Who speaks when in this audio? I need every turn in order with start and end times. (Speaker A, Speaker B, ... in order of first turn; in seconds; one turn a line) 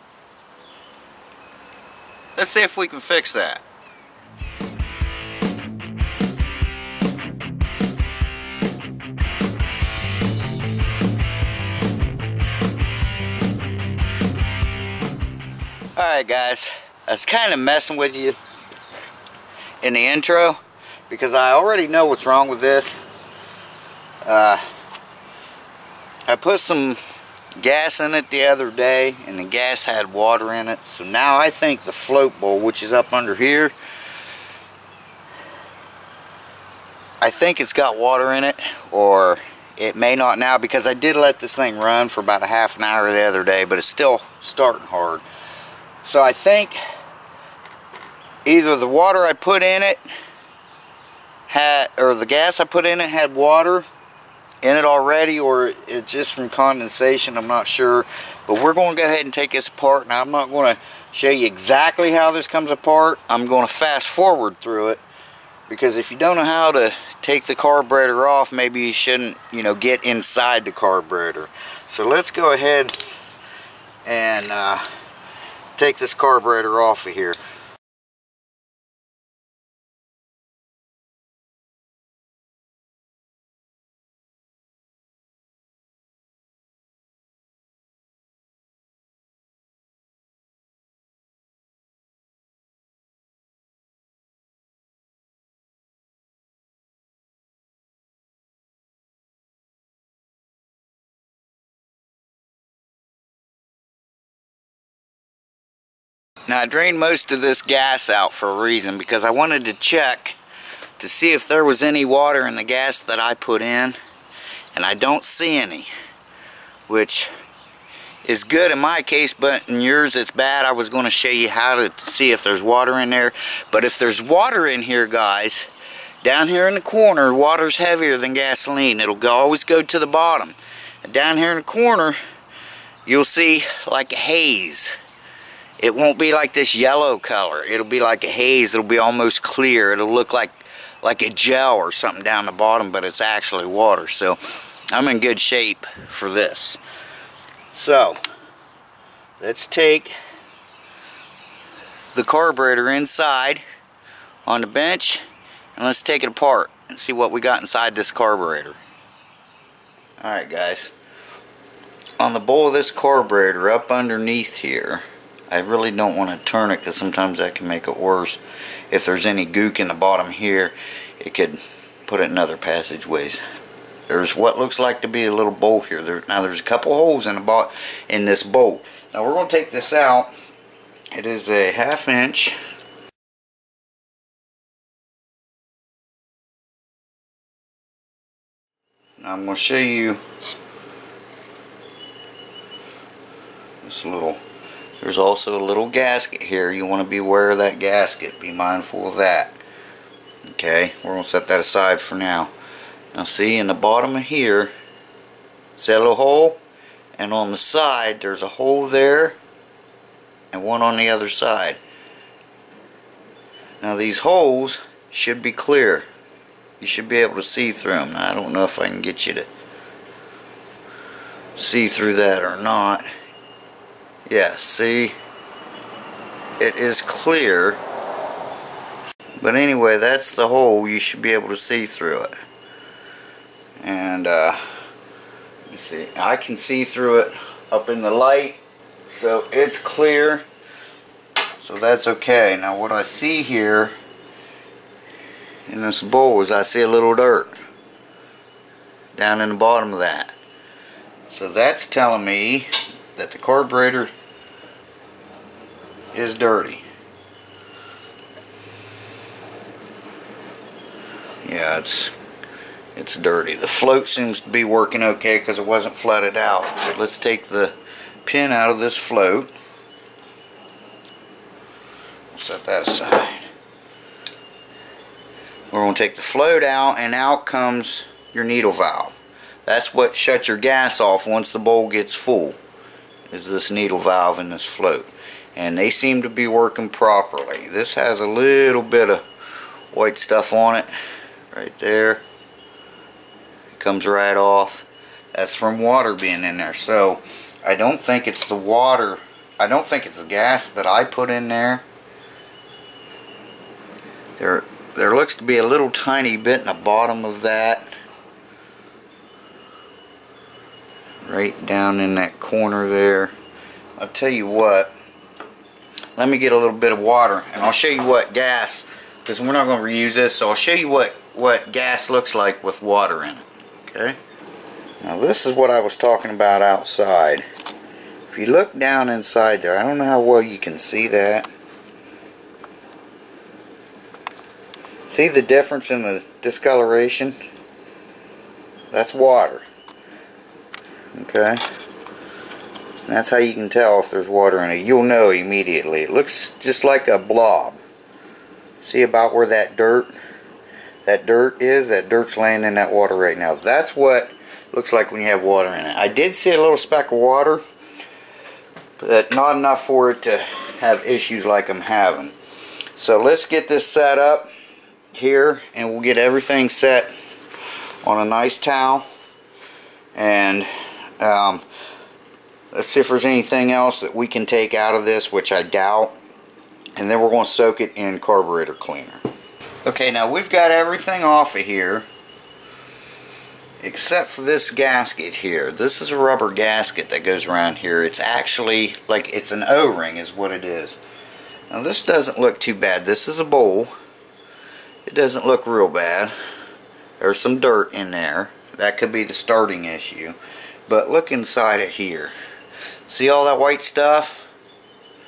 Speaker A: 2.4-3.6
Speaker A: 15.9-18.4
Speaker A: 19.8-20.6
Speaker A: 21.1-23.0
Speaker A: 24.2-24.6
Speaker A: 26.3-27.0
Speaker A: 27.6-33.7
Speaker A: 37.2-45.2
Speaker A: 46.0-46.8
Speaker A: 48.4-50.0
Speaker A: 51.5-53.9
Speaker A: 54.6-65.0
Speaker A: 65.7-73.0
Speaker A: 74.0-74.9
Speaker A: 75.8-77.4
Speaker A: 106.5-110.4
Speaker A: 111.0-114.0
Speaker A: 114.7-115.9
Speaker A: 116.9-117.3
Speaker A: 118.2-125.7
Speaker A: 126.2-132.2
Speaker A: 133.1-134.9
Speaker A: 135.8-146.8
Speaker A: 147.7-148.2
Speaker A: 149.4-150.1
Speaker A: 152.1-153.6
Speaker A: 154.4-155.2
Speaker A: 155.8-158.8
Speaker A: 160.2-160.9
Speaker A: 162.2-173.4
Speaker A: 174.1-180.3
Speaker A: 181.1-182.6
Speaker A: 189.2-190.2
Speaker A: 193.8-194.4
Speaker A: 195.0-199.6
Speaker A: 200.5-202.5
Speaker A: 203.1-204.7
Speaker A: 205.8-206.6
Speaker A: 207.2-209.4
Speaker A: 210.5-211.8
Speaker A: 213.8-216.1
Speaker A: 216.8-219.5
Speaker A: 221.6-223.1
Speaker A: 224.3-225.1
Speaker A: 226.6-227.8
Speaker A: 229.4-232.3
Speaker A: 233.8-234.6
Speaker A: 235.7-240.4
Speaker A: 241.6-243.9
Speaker A: 245.7-247.6
Speaker A: 249.1-250.3
Speaker A: 251.3-254.1
Speaker A: 256.1-256.8
Speaker A: 261.4-262.1
Speaker A: 262.9-269.5
Speaker A: 272.3-273.5
Speaker A: 275.7-279.1
Speaker A: 279.6-282.6
Speaker A: 283.3-289.2
Speaker A: 289.9-290.9
Speaker A: 291.5-292.2
Speaker A: 293.7-301.8
Speaker A: 304.4-307.9
Speaker A: 311.2-313.3
Speaker A: 314.0-314.9
Speaker A: 316.1-324.2
Speaker A: 325.0-327.4
Speaker A: 328.3-331.5
Speaker A: 335.1-337.4
Speaker A: 338.9-339.6
Speaker A: 341.1-341.6
Speaker A: 343.1-347.8
Speaker A: 348.8-350.1
Speaker A: 351.0-357.6
Speaker A: 359.0-362.3
Speaker A: 362.9-364.5
Speaker A: 365.1-367.1
Speaker A: 368.0-369.1
Speaker A: 370.1-371.6
Speaker A: 372.7-376.2
Speaker A: 377.0-379.2
Speaker A: 379.8-382.1
Speaker A: 383.8-391.0
Speaker A: 391.7-393.9
Speaker A: 395.0-396.3
Speaker A: 397.2-400.4
Speaker A: 400.9-402.3
Speaker A: 403.1-404.5